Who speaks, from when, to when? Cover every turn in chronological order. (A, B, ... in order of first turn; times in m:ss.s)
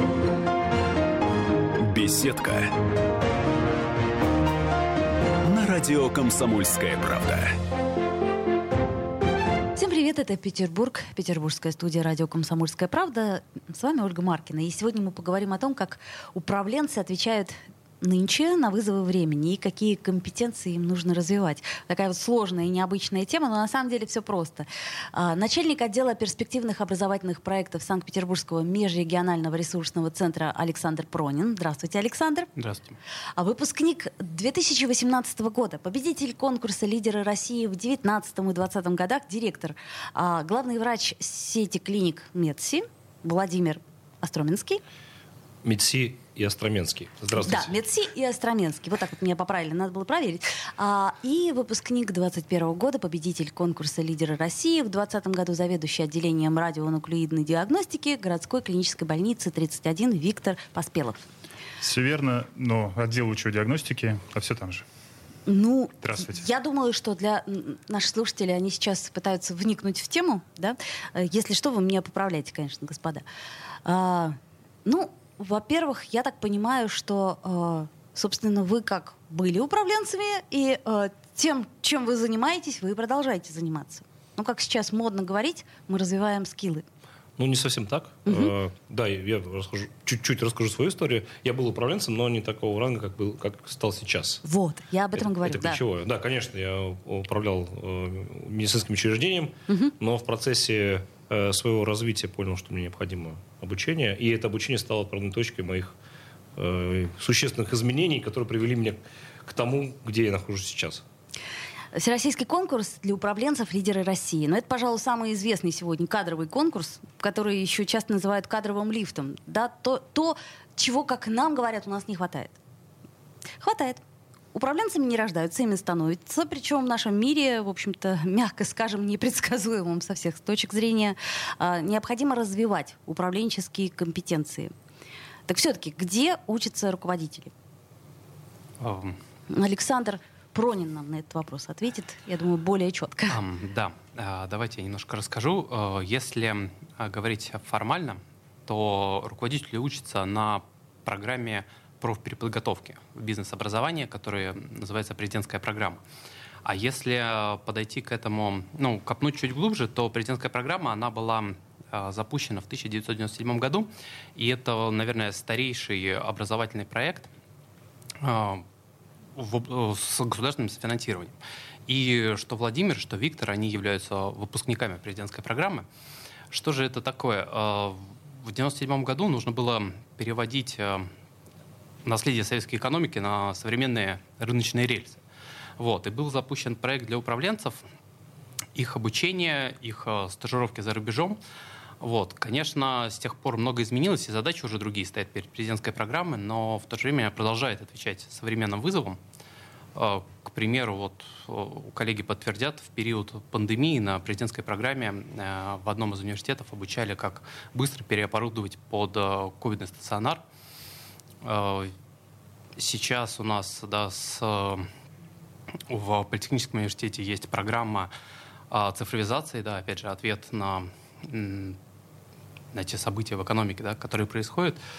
0:01.8-0:02.7 A
0:05.4-0:07.6 A
0:09.8-0:32.5 B
0:32.6-0:33.0 C
0:33.4-0:44.8 B
0:45.6-0:47.8 D
0:47.4-1:01.2 B
1:01.8-1:04.8 E
1:05.4-1:13.2 B
1:06.0-1:06.4 E
1:13.8-1:26.8 B
1:27.4-1:34.4 D
1:28.2-1:28.5 B
1:34.4-1:35.8 B
1:35.2-1:45.9 D
1:46.6-1:51.0 D
1:51.9-2:02.6 B
2:03.6-2:04.0 B
2:04.5-2:14.7 B
2:15.5-2:17.5 B
2:18.8-2:19.2 C
2:19.5-2:23.4 B
2:23.3-2:36.0 C
2:36.6-2:47.3 C
2:48.2-2:48.6 C
2:49.4-2:55.8 C
2:56.5-3:01.1 C
3:02.0-3:05.2 C
3:05.8-3:07.8 C
3:08.7-3:11.4 C
3:12.0-3:19.2 C
3:19.9-3:30.4 C
3:31.4-3:31.9 C
3:32.8-3:34.9 C
3:35.9-3:38.1 C
3:38.7-3:41.8 C
3:42.7-3:44.8 C